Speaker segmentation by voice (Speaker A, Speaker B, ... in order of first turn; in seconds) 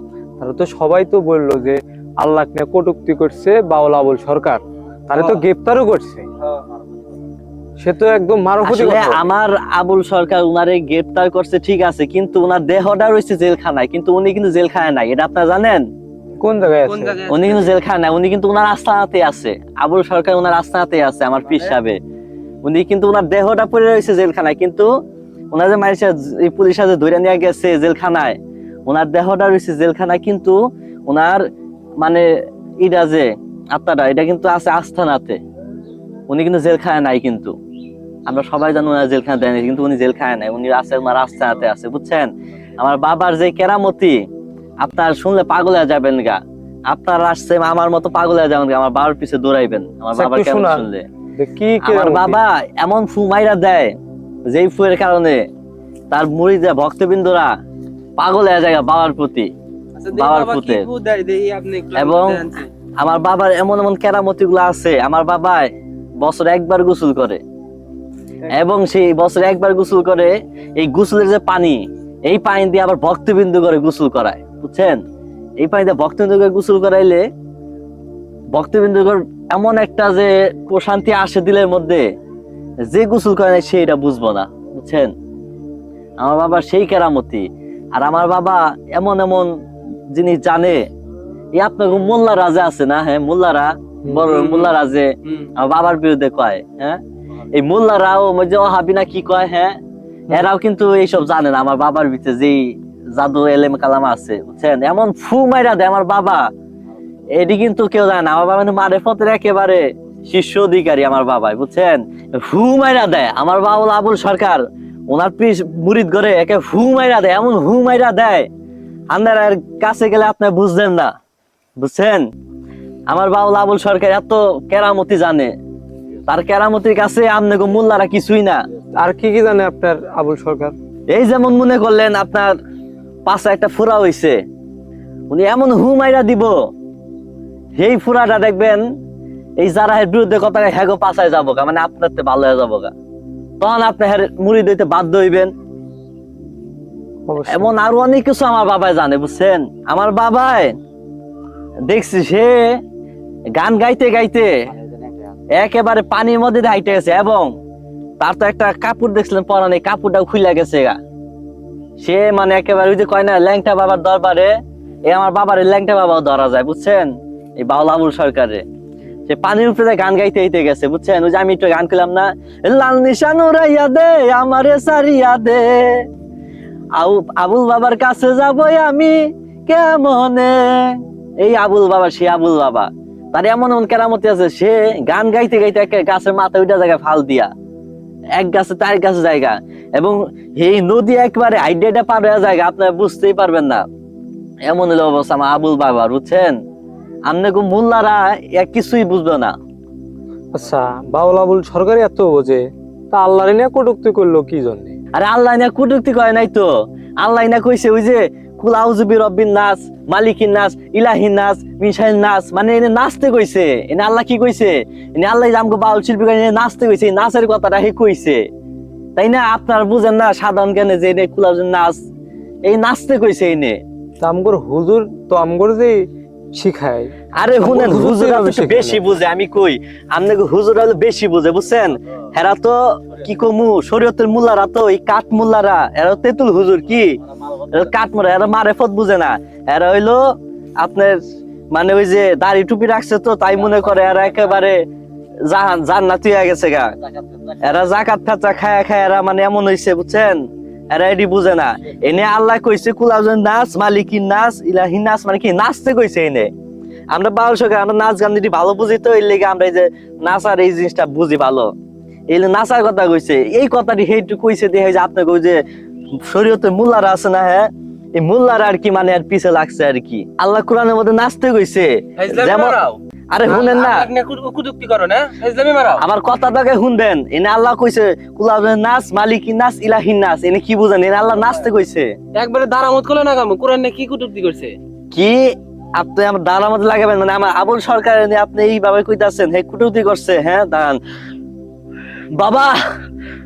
Speaker A: 0.4-6.2, 7.8-9.2, 16.4-17.2, 50.1-52.4, 94.0-94.3, 129.0-130.8, 147.3-147.7, 200.5-204.9, 224.2-229.0
Speaker B: 8.6-15.8, 17.3-22.0, 22.6-24.9, 25.5-30.6, 31.1-31.4, 32.0-32.2, 32.8-35.4, 36.3-37.5, 38.3-44.2, 44.8-46.4, 46.9-51.0, 51.8-53.9, 54.5-55.4, 56.1-57.5, 58.2-59.5, 60.1-60.9, 61.9-62.4, 63.0-65.7, 66.2-67.4, 68.5-75.0, 75.6-77.2, 78.5-82.0, 82.9-85.1, 86.2-89.5, 90.1-90.8, 91.5-97.0, 97.5-99.8, 100.3-106.4, 107.3-118.5, 119.1-121.1, 121.8-122.2, 123.1-125.5, 126.3-128.6, 131.1-132.5, 133.2-134.4, 135.3-136.5, 137.8-138.8, 139.6-142.9, 143.6-145.5, 147.5-150.7, 151.9-152.8, 153.6-154.5, 155.5-157.5, 158.2-161.0, 162.0-164.5, 165.1-168.6, 169.3-176.0, 177.0-187.5, 188.3-193.8, 194.7-196.5, 197.3-199.5, 205.1-206.7, 207.2-218.4, 219.2-222.0, 222.7-223.8, 227.4-237.2, 237.7-240.2, 240.8-244.8, 245.5-246.9, 247.6-256.5, 257.1-261.7, 262.3-265.6, 266.2-272.8, 273.3-274.1, 276.0-282.1, 285.1-291.0, 292.4-292.7
Speaker C: 16.9-17.7, 60.0-62.7, 94.3-94.7, 95.2-95.5, 272.2-276.0, 282.3-284.8